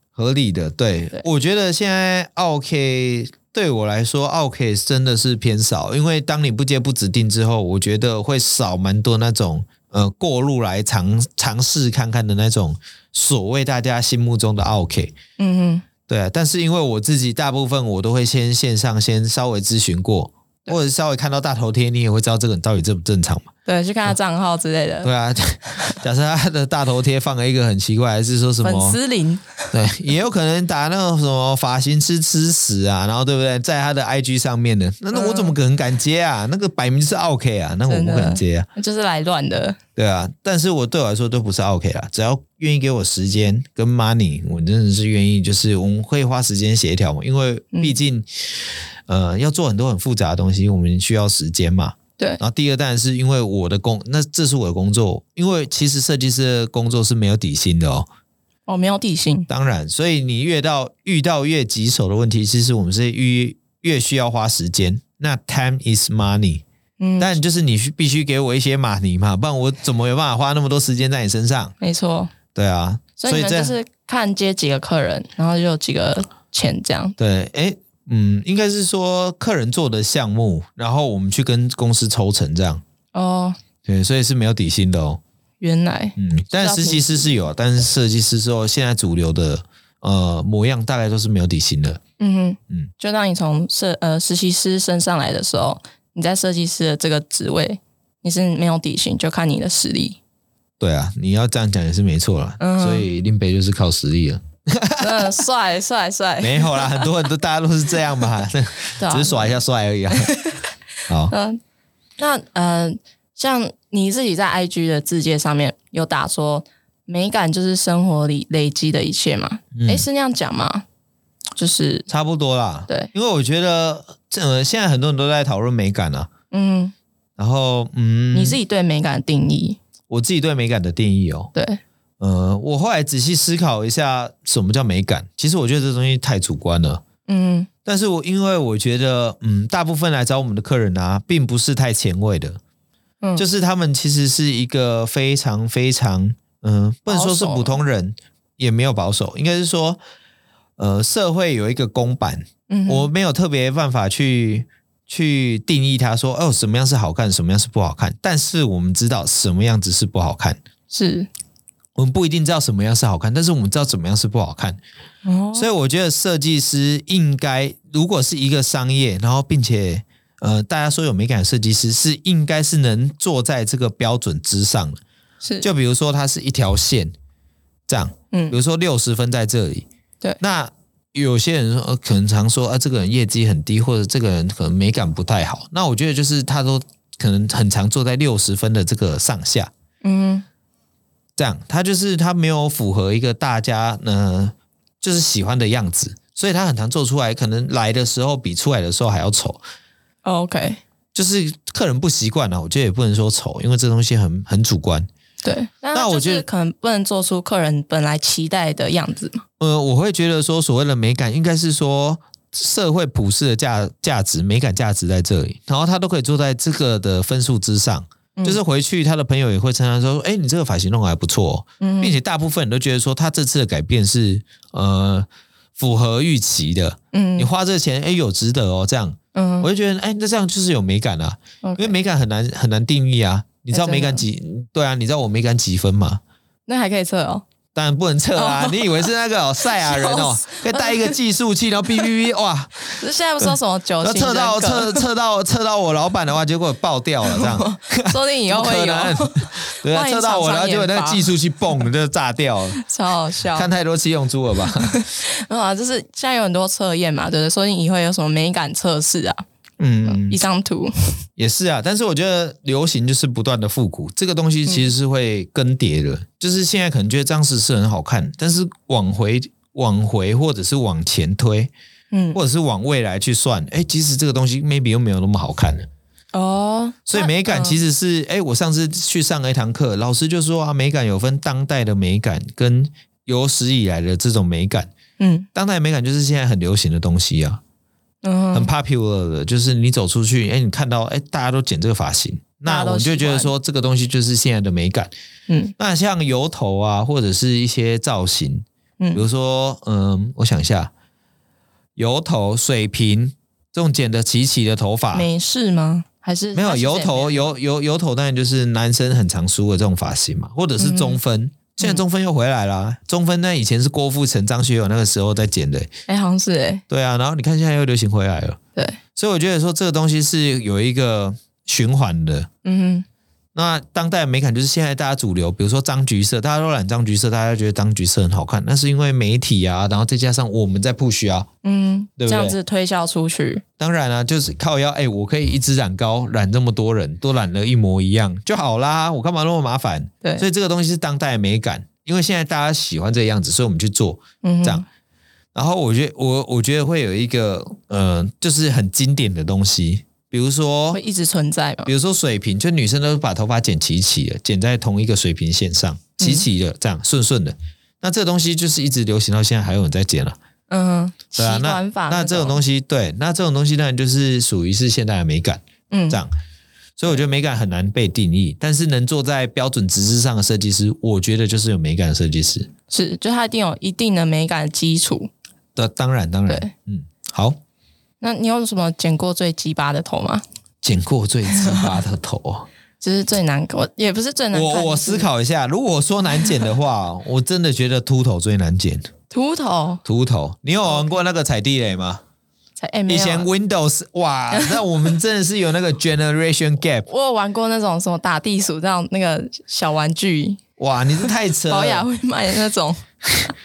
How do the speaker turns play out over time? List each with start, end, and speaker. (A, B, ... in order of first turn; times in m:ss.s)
0:00.2-0:15.2 A
0:15.4-0:15.8 B
0:16.1-0:23.5 A
0:23.6-0:25.1 B
0:25.0-0:29.0 A
0:28.6-0:29.7 B
0:29.7-0:38.7 A
0:35.1-0:35.5 B
0:37.9-0:39.8 B
0:40.0-0:58.1 A
0:58.7-0:59.5 B
0:59.5-1:06.6 A
1:07.0-1:07.4 B
1:07.2-1:11.7 A
1:11.8-1:12.3 B
1:12.5-1:13.7 A
1:13.2-1:17.2 B
1:17.2-1:22.8 A
1:23.1-1:23.6 B
1:23.8-1:25.2 A
1:25.6-1:27.3 B
1:26.2-1:32.0 A
1:32.2-1:40.2 B
1:40.8-1:45.4 A
1:42.6-1:43.1 B
1:45.0-1:47.1 B
1:46.4-1:50.4 A
1:49.0-1:49.5 B
1:50.1-1:50.6 B
1:51.1-1:51.3 A
1:51.3-1:51.6 B
1:52.2-2:00.8 B
1:59.7-2:00.0 A
2:01.6-2:02.1 B
2:02.1-2:06.3 A
2:06.5-2:06.9 B
2:07.4-2:08.6 A
2:08.3-2:09.8 B
2:10.1-2:11.5 A
2:11.5-2:11.8 B
2:12.2-2:17.0 A
2:17.3-2:17.7 B
2:17.8-2:22.6 A
2:23.4-2:30.0 A
2:27.1-2:27.8 B
2:30.8-2:40.6 A
2:32.7-2:33.1 B
2:40.9-2:41.3 B
2:42.0-2:44.8 A
2:45.2-2:45.7 B
2:45.5-2:55.0 A
2:55.4-2:55.7 B
2:55.6-2:57.1 A
2:57.9-2:59.9 A
2:58.3-2:58.6 B
3:00.4-3:09.7 A
3:10.0-3:10.4 B
3:11.4-3:19.6 A
3:20.2-3:20.8 B
3:21.1-3:25.1 A
3:25.4-3:29.4 B
3:25.9-3:26.4 A
3:29.6-3:56.2 A
3:41.8-3:42.2 B
3:47.1-3:47.5 B
3:49.3-3:49.7 B
3:51.6-3:52.0 B
3:53.7-3:54.2 B
3:56.7-3:57.4 B
3:57.7-4:12.8 A
3:58.4-3:58.9 B
3:59.6-4:01.2 B
4:02.9-4:05.0 B
4:07.2-4:11.3 B
4:12.8-4:13.7 B
4:13.5-4:15.0 A
4:14.6-4:19.4 B
4:19.8-4:20.4 A
4:20.0-4:21.1 B
4:21.4-4:31.7 A
4:32.1-4:32.4 B
4:32.3-4:35.9 A
4:36.3-4:37.8 B
4:37.1-4:44.9 A
4:45.2-4:45.5 B
4:45.5-4:47.6 A
4:48.2-4:48.7 B
4:48.5-4:55.1 A
4:52.6-4:53.5 B
4:55.5-4:55.7 B
4:55.8-5:00.9 A
5:02.0-5:05.3 A
5:05.1-5:07.4 B
5:06.5-5:15.9 A
5:10.8-5:11.2 B
5:16.1-5:16.8 B
5:16.9-5:18.6 A
5:19.2-5:22.5 A
5:22.6-5:23.0 B
5:23.5-5:31.5 A
5:31.6-5:33.6 B
5:32.2-5:32.6 A
5:33.8-5:44.8 A
5:44.4-5:44.8 B
5:45.5-5:51.0 A
5:50.9-5:51.9 B
5:51.8-6:00.4 A
5:56.2-5:56.4 B
6:00.7-6:02.6 B
6:01.4-6:06.3 A
6:05.9-6:06.2 B
6:07.0-6:12.7 A
6:12.9-6:15.3 B
6:15.8-6:17.6 A
6:18.2-6:20.4 B
6:20.8-6:22.7 A
6:21.5-6:21.9 B
6:23.0-6:25.3 B
6:24.5-6:29.0 A
6:29.3-6:30.0 B
6:30.0-6:32.2 A
6:30.9-6:31.1 B
6:32.8-6:33.5 B
6:33.1-6:37.1 A
6:34.5-6:34.8 B
6:37.1-6:40.6 B
6:40.8-6:42.0 A
6:41.2-6:43.0 B